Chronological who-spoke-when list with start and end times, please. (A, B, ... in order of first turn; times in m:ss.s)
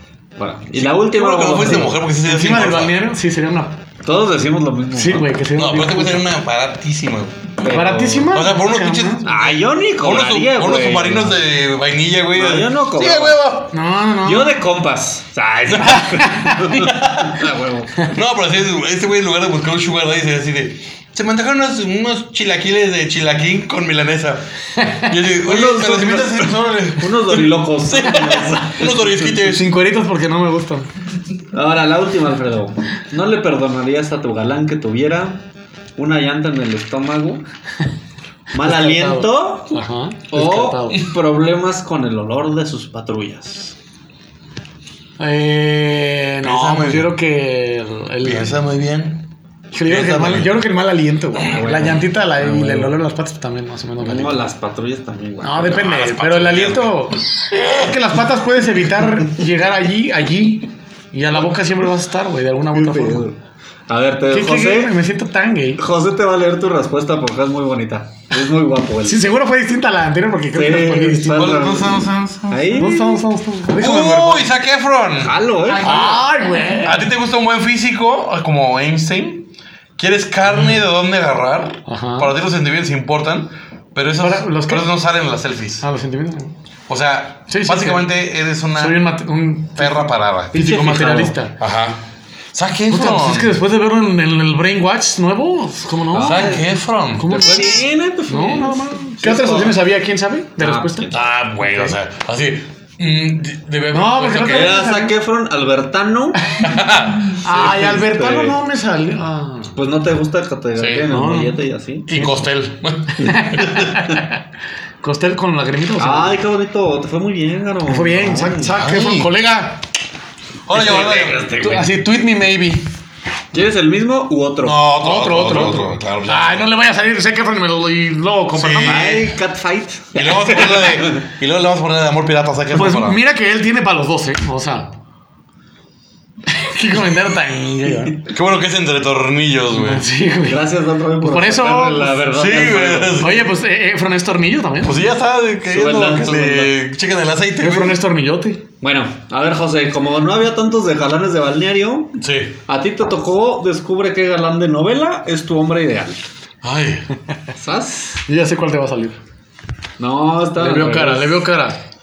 0:00.4-0:02.0 A
0:00.8-0:03.0 B
0:02.2-0:03.8 C
0:04.0-0:05.3 A
0:04.9-0:06.3 C
0:05.6-0:13.7 B
0:07.6-0:08.3 A
0:07.6-0:09.2 C
0:09.2-0:11.4 A
0:12.3-0:13.4 A
0:13.7-0:14.6 C
0:14.2-0:17.9 A
0:15.7-0:16.1 B
0:16.2-0:16.6 C
0:16.7-0:17.4 B
0:18.1-0:29.7 B
0:24.8-0:25.1 C
0:25.4-0:29.4 A
0:29.4-0:30.9 C
0:31.5-0:35.4 A
0:36.0-0:37.4 A
0:38.5-0:43.8 A
0:38.6-0:41.0 C
0:45.2-0:48.6 C
0:46.4-0:47.2 B
0:48.2-0:49.2 B
0:49.7-0:54.4 C
0:49.8-0:50.6 B
0:51.4-0:53.0 A
0:54.0-0:55.9 A
0:55.4-1:03.3 C
0:55.7-0:57.9 B
1:02.7-1:03.4 A
1:03.9-1:05.0 A
1:04.3-1:05.8 C
1:05.8-1:09.2 A
1:09.0-1:11.6 C
1:10.5-1:13.2 A
1:11.3-1:12.9 B
1:12.8-1:14.5 C
1:13.8-1:15.4 B
1:15.2-1:16.2 A
1:15.8-1:17.0 C
1:16.8-1:25.8 B
1:21.8-1:22.3 C
1:24.2-1:24.9 C
1:25.8-1:26.5 C
1:26.9-1:29.1 B
1:27.5-1:28.1 C
1:28.7-1:31.5 C
1:29.8-1:30.8 B
1:30.5-1:31.4 A
1:31.6-1:32.0 B
1:32.5-1:33.6 B
1:32.9-1:36.6 C
1:36.1-1:36.7 A
1:36.2-1:37.4 B
1:37.2-1:41.9 C
1:37.2-1:39.8 A
1:40.6-1:41.3 A
1:41.1-1:44.8 B
1:43.9-1:45.1 C
1:44.4-1:46.4 A
1:46.6-1:47.4 B
1:47.3-1:49.8 C
1:47.5-1:48.6 A
1:49.7-1:52.1 A
1:50.8-1:51.1 B
1:51.1-1:52.4 C
1:52.1-1:54.0 B
1:53.2-1:54.4 C
1:55.0-1:56.4 C
1:56.0-1:58.8 A
1:57.8-1:59.8 C
1:58.7-1:59.3 B
2:00.6-2:01.4 B
2:00.7-2:02.0 A
2:01.6-2:02.9 C
2:03.5-2:04.8 A
2:04.6-2:06.7 B
2:05.0-2:09.2 C
2:08.5-2:09.3 B
2:08.8-2:11.3 A
2:10.1-2:13.2 B
2:12.7-2:14.9 C
2:16.5-2:18.2 C
2:18.3-2:20.0 B
2:19.7-2:22.2 C
2:20.4-2:23.3 A
2:22.3-2:23.4 B
2:23.2-2:25.0 C
2:24.8-2:28.0 B
2:25.7-2:26.8 A
2:27.6-2:28.6 C
2:28.8-2:36.2 A
2:32.2-2:32.6 B
2:36.6-2:37.1 B
2:37.5-2:38.2 A
2:38.2-2:39.2 C
2:40.0-2:41.5 A
2:40.6-2:41.8 C